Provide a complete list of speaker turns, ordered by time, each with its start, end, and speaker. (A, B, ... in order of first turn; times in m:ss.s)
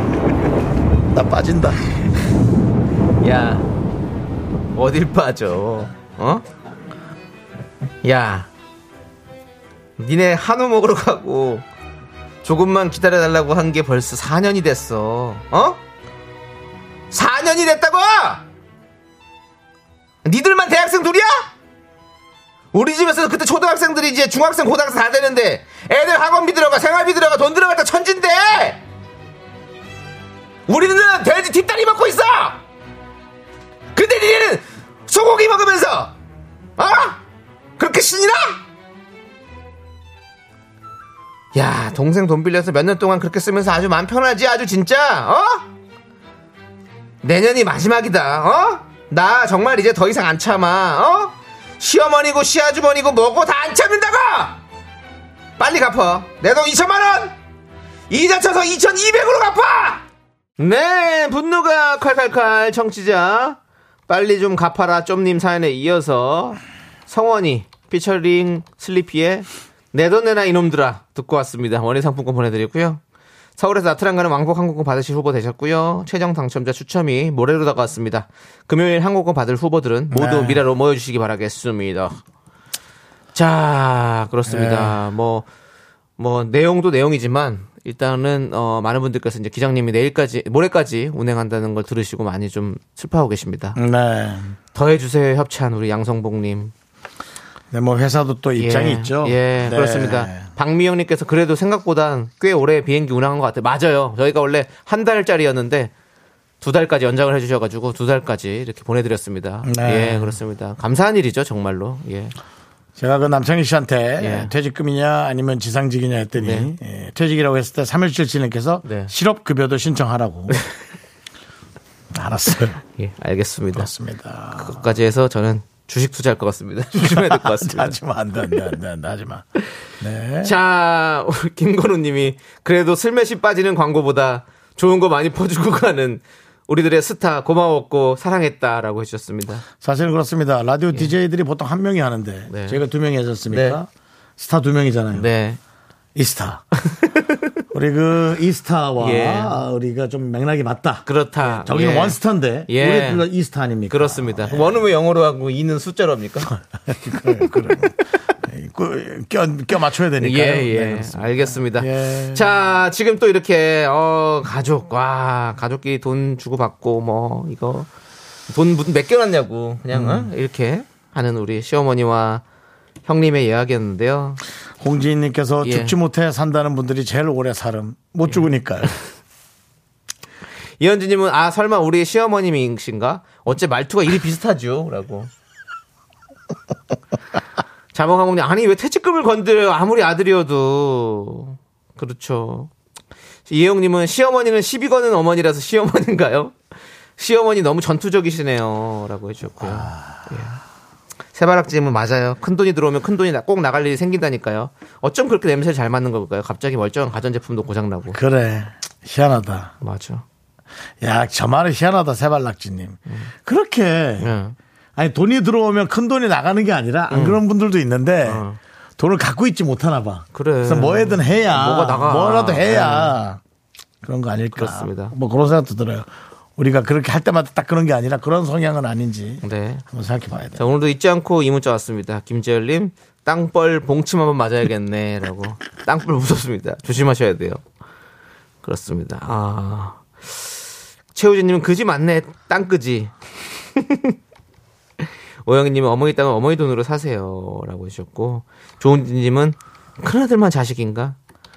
0:01.1-0:01.8 A
0:03.2-0:03.7 B
0:04.7-0:06.4 B
0:08.0-0:08.5 B
0:10.0-0:11.6 B
0:12.4-0:15.8 B
0:17.1-0:18.4 B
0:20.2-0:21.5 B
0:22.7-0:28.8 B
0:30.7-0:32.6 B
0:33.9-0:36.1 B
0:36.8-0:37.2 B
0:37.8-0:38.6 B
0:41.5-0:45.6 B
0:47.2-0:54.6 B
0:55.6-0:57.3 B
0:58.1-1:00.0 B
1:00.6-1:13.0 B
1:13.6-1:22.2 B
1:20.1-1:20.6 A
1:23.3-1:25.4 B
1:24.5-1:25.0 A
1:26.2-1:33.8 B
1:33.7-1:34.6 A
1:34.7-1:36.7 B
1:37.7-1:40.5 A
1:38.6-1:45.9 B
1:46.6-1:52.3 B
1:49.6-1:50.4 A
1:53.0-2:00.6 A
1:54.2-1:54.5 B
1:56.4-1:56.7 B
1:58.8-1:59.1 B
2:02.1-2:02.8 A
2:03.0-2:03.9 B
2:03.7-2:04.8 A
2:04.6-2:08.0 B
2:07.0-2:09.5 A
2:10.0-2:10.5 A
2:10.4-2:19.6 B
2:19.8-2:25.2 A
2:22.5-2:22.8 B
2:23.5-2:23.8 B
2:25.1-2:25.6 B
2:26.1-2:26.6 A
2:26.8-2:27.2 B
2:27.7-2:34.8 A
2:29.0-2:29.6 B
2:31.0-2:33.2 B
2:33.9-2:36.5 B
2:36.9-2:42.5 A
2:37.2-2:37.7 B
2:40.2-2:47.9 B
2:48.5-2:52.4 B
2:49.9-2:50.3 A
2:53.0-2:54.4 B
2:54.8-2:58.9 A
2:55.6-2:55.9 B
3:00.8-3:05.3 B
3:07.9-3:12.7 B
3:13.5-3:16.5 B
3:17.2-3:20.6 B
3:19.6-3:20.3 A
3:21.3-3:28.2 B
3:28.1-3:29.7 A
3:29.8-3:30.2 B
3:31.0-3:34.3 A
3:34.2-3:34.6 B
3:35.0-3:38.4 A
3:37.1-3:37.4 B
3:38.2-3:38.6 B
3:39.0-3:43.4 A
3:40.3-3:43.2 B
3:44.0-3:50.6 A
3:44.5-3:45.1 B
3:49.4-3:49.8 B
3:50.6-3:57.6 B
3:58.6-4:00.0 B
4:01.1-4:03.1 B
4:03.8-4:04.2 B
4:05.4-4:11.2 B